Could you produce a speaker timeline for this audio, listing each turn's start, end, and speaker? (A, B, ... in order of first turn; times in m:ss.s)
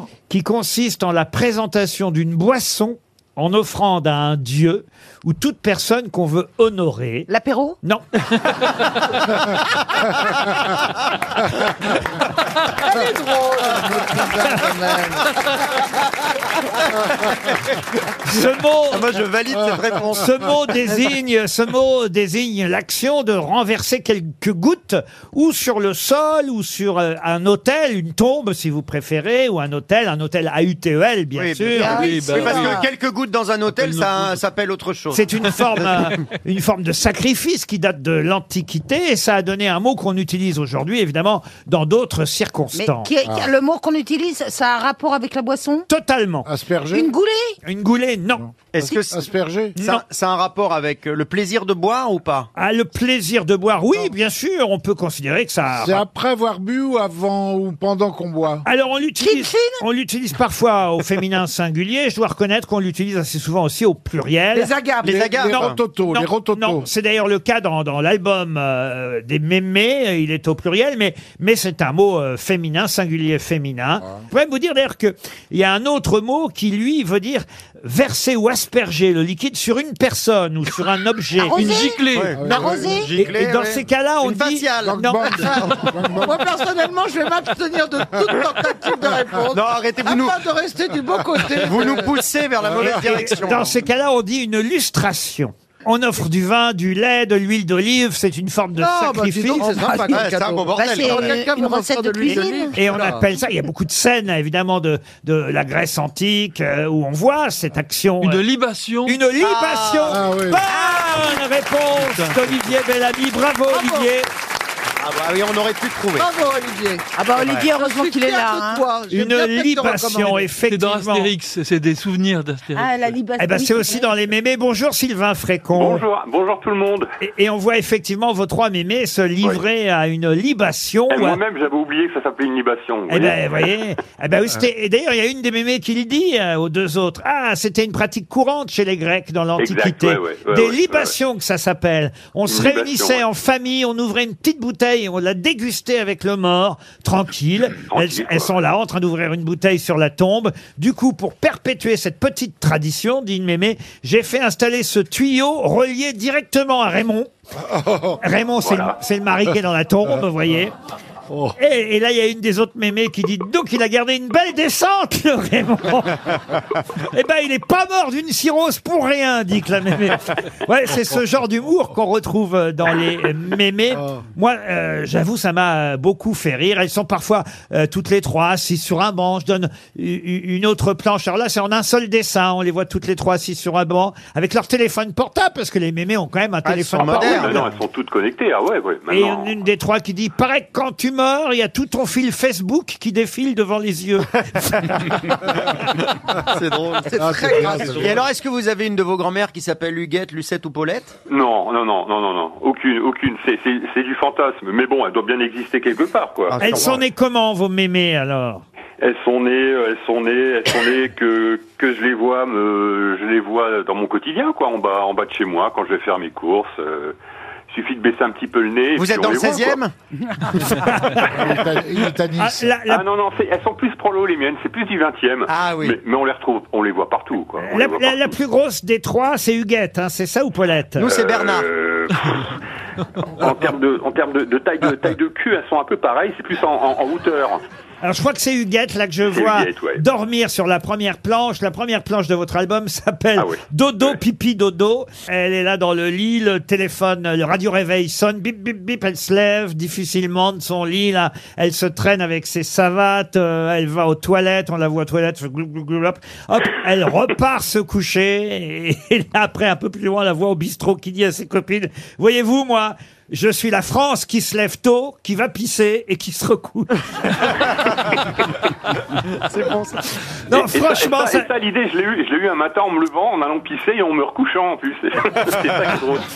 0:00.3-0:07.3 A
0:07.3-0:07.8 B
0:07.8-0:08.9 A
0:12.8-0:15.5 C
0:14.3-0:14.7 A
0:16.6-0:17.5 D
0:18.2-0:19.2 A
0:18.9-0:20.4 D
0:20.1-0:32.1 A
0:31.4-0:35.4 D
0:31.8-0:32.9 B
0:31.9-0:32.8 E
0:33.7-0:34.2 E
0:35.1-0:43.1 A
0:42.7-0:45.9 B
0:43.2-0:43.5 F
0:45.9-0:46.5 A
0:46.4-0:47.1 F
0:46.9-0:47.6 B
0:47.6-0:48.4 A
0:48.7-0:52.5 D
0:49.1-0:49.7 F
0:49.8-0:50.0 A
0:52.6-0:56.0 A
0:55.7-0:58.6 F
0:58.6-1:04.7 A
0:59.2-0:59.8 B
1:04.6-1:05.2 C
1:05.0-1:05.8 D
1:05.0-1:06.9 F
1:05.4-1:22.0 A
1:21.4-1:26.0 D
1:21.5-1:23.1 B
1:21.5-1:22.4 E
1:22.3-1:23.2 F
1:23.2-1:25.4 A
1:24.8-1:26.4 F
1:26.2-1:32.2 C
1:29.5-1:30.4 D
1:31.6-1:33.7 D
1:32.6-1:33.2 F
1:33.0-1:40.1 A
1:38.8-1:43.3 C
1:39.8-1:42.8 B
1:40.1-1:41.4 D
1:42.7-1:48.4 A
1:48.2-1:49.1 E
1:49.0-1:54.3 A
1:49.4-1:50.2 D
1:50.1-1:50.6 F
1:52.0-1:52.4 E
1:53.7-1:54.1 C
1:55.0-1:56.3 D
1:56.1-2:00.6 C
1:57.1-1:58.9 B
1:57.4-1:57.7 D
1:59.1-2:01.3 A
2:00.6-2:03.2 E
2:02.7-2:04.1 B
2:03.4-2:06.0 A
2:05.7-2:07.1 G
2:07.2-2:11.4 A
2:11.1-2:13.6 G
2:13.1-2:37.3 A
2:19.6-2:21.1 G
2:22.5-2:23.2 G
2:27.9-2:28.6 G
2:37.7-2:38.2 F
2:38.2-2:40.7 A
2:38.6-2:39.0 G
2:41.3-2:41.5 F
2:41.6-3:07.7 A
3:06.6-3:07.6 D
3:07.0-3:09.5 G
3:09.1-3:15.3 A
3:16.4-3:21.1 D
3:17.1-3:18.2 C
3:17.2-3:18.2 F
3:21.3-3:27.0 G
3:26.5-3:27.0 D
3:26.6-3:28.6 A
3:29.0-3:37.1 G
3:37.7-3:39.8 G
3:39.0-3:39.9 D
3:40.6-3:41.6 A
3:41.2-3:42.7 F
3:42.4-3:43.0 A
3:42.9-3:48.3 G
3:45.5-3:46.0 D
3:47.6-3:51.1 A
3:51.0-3:51.7 D
3:51.1-3:52.6 G
3:53.2-3:57.6 G
3:58.0-4:28.4 A
3:59.2-4:00.0 G
4:03.4-4:04.2 G
4:29.5-4:29.9 D
4:30.5-4:31.5 A
4:30.5-4:36.2 G